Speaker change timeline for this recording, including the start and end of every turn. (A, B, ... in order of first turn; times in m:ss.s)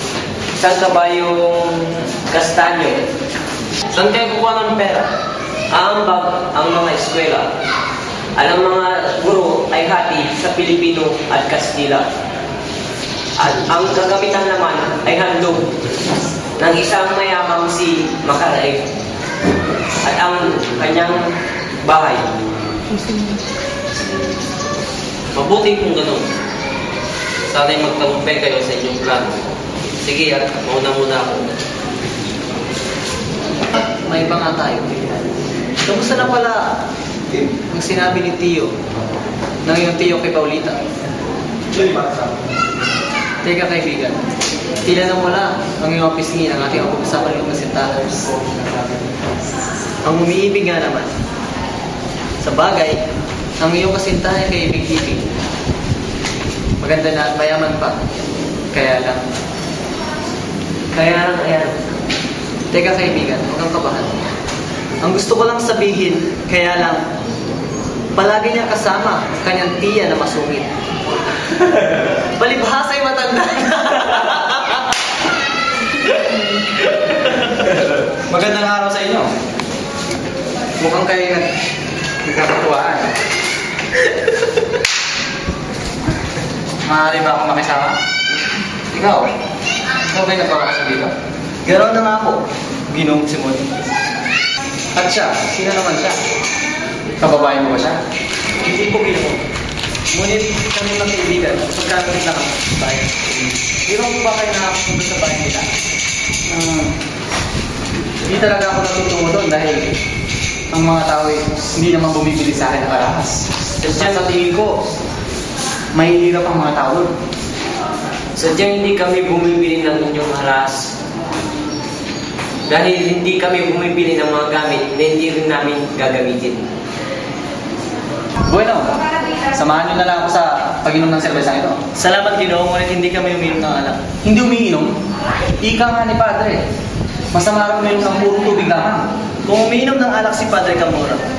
0:00.6-0:03.0 A
0:04.0-0:04.7 B
0:04.0-0:05.0 A
0:05.7-0:07.5 A
0:08.4-0:12.1 A
0:13.4-0:15.7 A
0:16.6-0:18.9 A
0:20.0-0:21.2 A
0:21.8-0:22.3 A
0:25.3-0:26.2 B
0:27.5-0:29.4 B
0:30.0-0:31.6 B
0:33.7-0:34.9 C
0:35.8-0:36.7 C
0:37.3-0:38.7 C
0:39.6-0:40.8 C
0:43.4-0:44.2 C
0:44.8-0:48.2 C
0:50.0-0:51.1 C
0:52.4-0:53.0 C
0:53.6-0:55.2 C
0:56.8-0:58.0 C
0:58.7-0:59.2 C
1:00.9-1:01.8 C
1:02.7-1:04.1 C
1:05.0-1:07.0 C
1:08.2-1:10.7 C
1:12.4-1:14.6 C
1:18.3-1:19.3 D
1:20.8-1:21.4 D
1:22.3-1:23.1 D
1:26.9-1:28.0 D
1:28.9-1:29.3 D
1:30.1-1:31.1 D
1:31.6-1:33.7 C
1:35.0-1:36.2 D
1:37.2-1:38.0 D
1:38.6-1:39.4 C
1:40.1-1:43.2 C
1:43.9-1:45.7 C
1:46.5-1:46.9 D
1:48.2-1:49.8 D
1:50.7-1:54.7 D
1:56.0-1:57.1 D
1:58.4-2:00.9 A
2:02.7-2:06.7 A
2:08.5-2:09.0 D
2:09.5-2:11.8 D
2:12.0-2:14.0 C
2:14.2-2:14.9 D
2:15.6-2:16.6 D
2:17.3-2:19.1 D
2:19.4-2:21.2 C